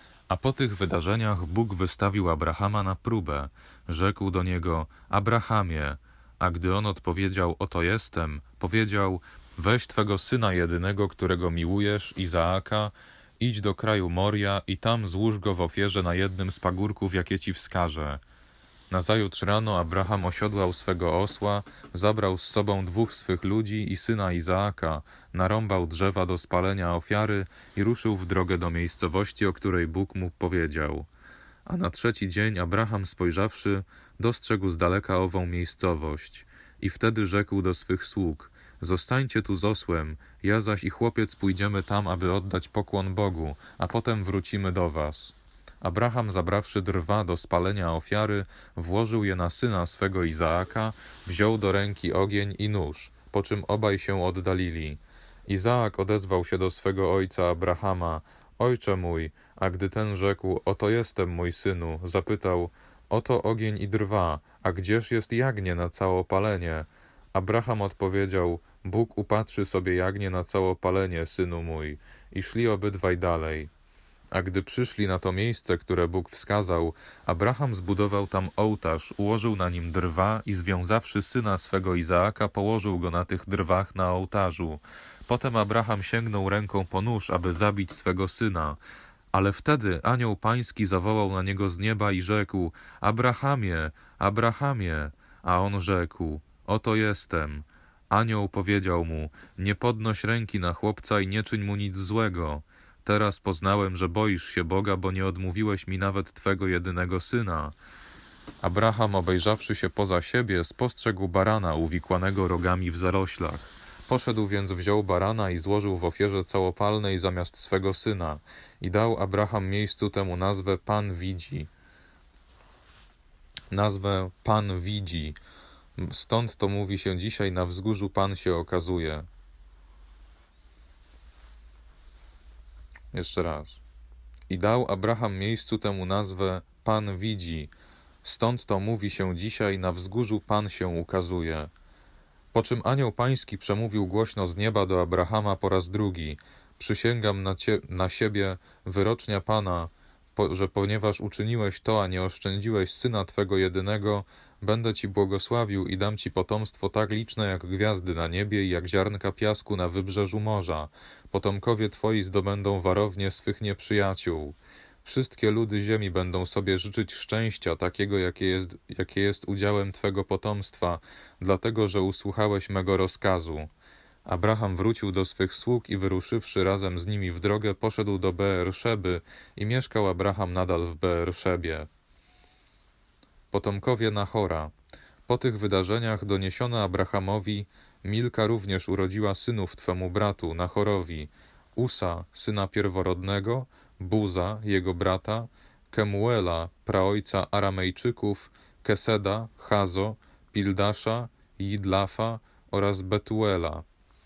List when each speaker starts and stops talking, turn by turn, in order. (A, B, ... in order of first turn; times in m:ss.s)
0:00.3-0:18.2 A
0:18.9-0:31.1 A
0:31.6-1:13.7 A
1:14.3-1:28.8 A
1:29.3-1:47.7 A
1:48.6-2:01.7 A
2:03.7-2:05.4 A
2:06.0-2:09.3 A
2:13.1-2:13.8 A
2:14.5-2:17.7 A
2:18.2-2:21.7 A
2:22.5-2:53.7 A
2:54.2-3:01.9 A
3:03.5-3:04.7 A
3:05.3-3:23.8 A